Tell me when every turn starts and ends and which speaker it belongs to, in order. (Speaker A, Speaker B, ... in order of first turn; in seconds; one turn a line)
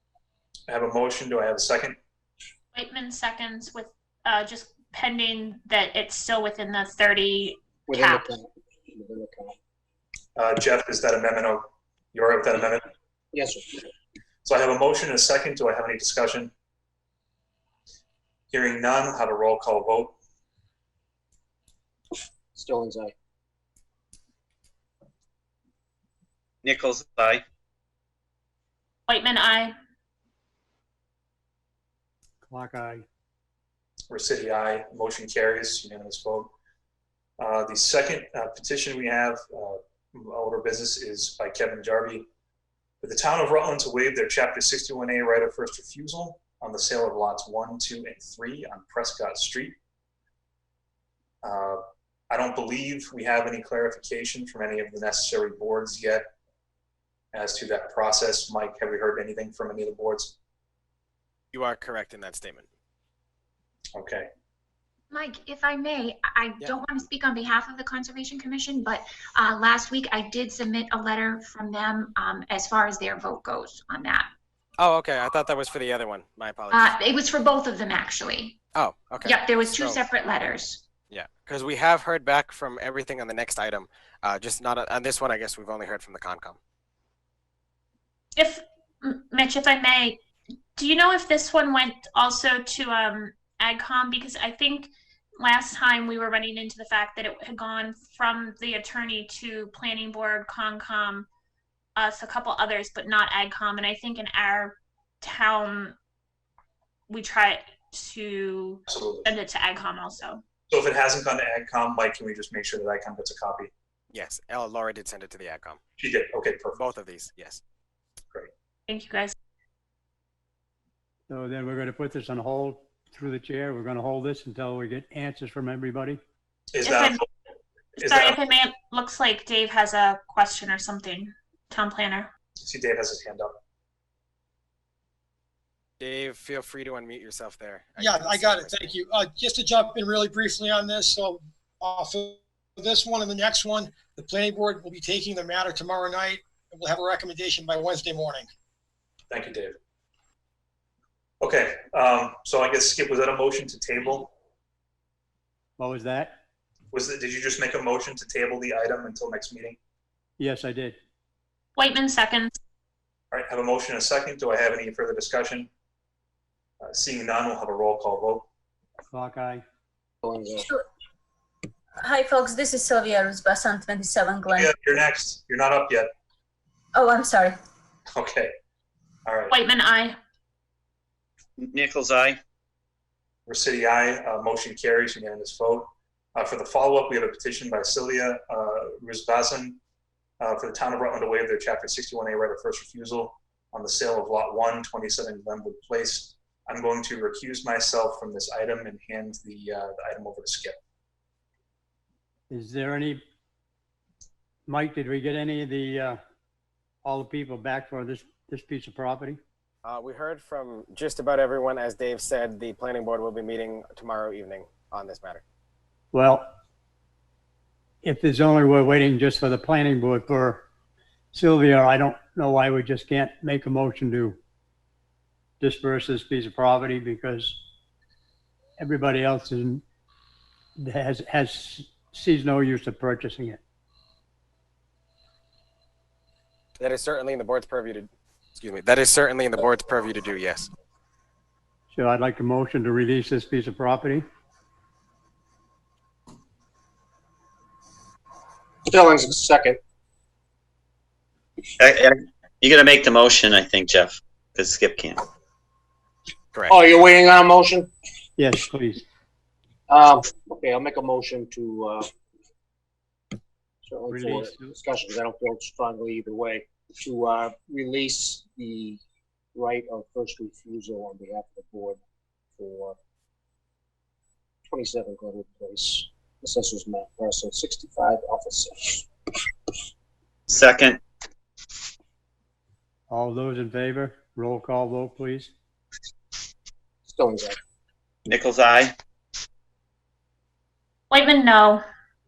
Speaker A: 0.7-2.0
Speaker B: 2.7-8.3
Speaker C: 7.9-9.5
Speaker A: 10.3-12.9
Speaker C: 13.3-13.9
Speaker A: 14.4-16.5
Speaker A: 18.5-20.1
Speaker C: 22.5-23.1
Speaker D: 26.6-27.4
Speaker B: 29.1-29.7
Speaker E: 32.4-33.0
Speaker A: 34.1-36.5
Speaker A: 37.4-42.3
Speaker A: 43.0-49.8
Speaker A: 51.4-56.2
Speaker A: 57.3-60.4
Speaker F: 61.5-62.7
Speaker A: 63.9-64.3
Speaker G: 65.1-74.3
Speaker F: 74.8-77.0
Speaker G: 76.7-78.6
Speaker F: 78.7-80.0
Speaker G: 79.2-80.8
Speaker F: 81.1-86.6
Speaker B: 88.3-90.2
Speaker B: 90.8-101.3
Speaker B: 102.0-106.0
Speaker B: 107.1-110.4
Speaker A: 108.9-109.3
Speaker A: 110.7-113.7
Speaker F: 114.1-115.8
Speaker A: 116.0-116.8
Speaker F: 116.8-117.6
Speaker B: 118.9-119.3
Speaker E: 121.3-126.2
Speaker A: 126.7-127.2
Speaker B: 126.8-127.2
Speaker B: 128.0-132.3
Speaker A: 128.0-128.3
Speaker A: 132.6-133.5
Speaker F: 136.0-139.0
Speaker H: 138.0-148.5
Speaker A: 149.3-149.8
Speaker A: 151.4-154.3
Speaker E: 155.8-156.3
Speaker A: 156.9-159.8
Speaker E: 160.4-160.9
Speaker B: 161.8-162.5
Speaker A: 163.3-165.7
Speaker A: 166.8-168.5
Speaker E: 169.1-169.6
Speaker C: 170.2-170.7
Speaker I: 172.0-173.2
Speaker E: 172.1-174.4
Speaker I: 173.9-174.7
Speaker A: 174.5-176.1
Speaker I: 176.9-177.5
Speaker E: 177.1-177.5
Speaker A: 178.1-178.5
Speaker A: 179.2-179.6
Speaker B: 179.5-180.2
Speaker D: 181.6-182.4
Speaker A: 183.5-189.8
Speaker A: 190.4-200.8
Speaker E: 202.5-203.2
Speaker E: 204.7-206.2
Speaker E: 207.0-209.4
Speaker F: 209.8-215.4
Speaker E: 216.1-216.4
Speaker E: 218.0-220.6
Speaker E: 221.3-224.4
Speaker E: 225.6-227.5
Speaker E: 228.8-229.8
Speaker E: 230.8-233.6
Speaker F: 236.8-240.7
Speaker E: 241.9-244.2
Speaker C: 248.9-249.8
Speaker D: 251.8-255.2
Speaker C: 256.7-257.9
Speaker E: 258.4-259.0
Speaker C: 259.9-262.1
Speaker C: 263.8-269.0
Speaker E: 264.1-264.7
Speaker C: 269.5-272.0
Speaker C: 272.6-273.0
Speaker C: 274.7-279.1
Speaker D: 280.5-281.0
Speaker E: 283.1-285.5
Speaker C: 287.1-287.6
Speaker D: 288.2-288.9
Speaker B: 291.1-291.8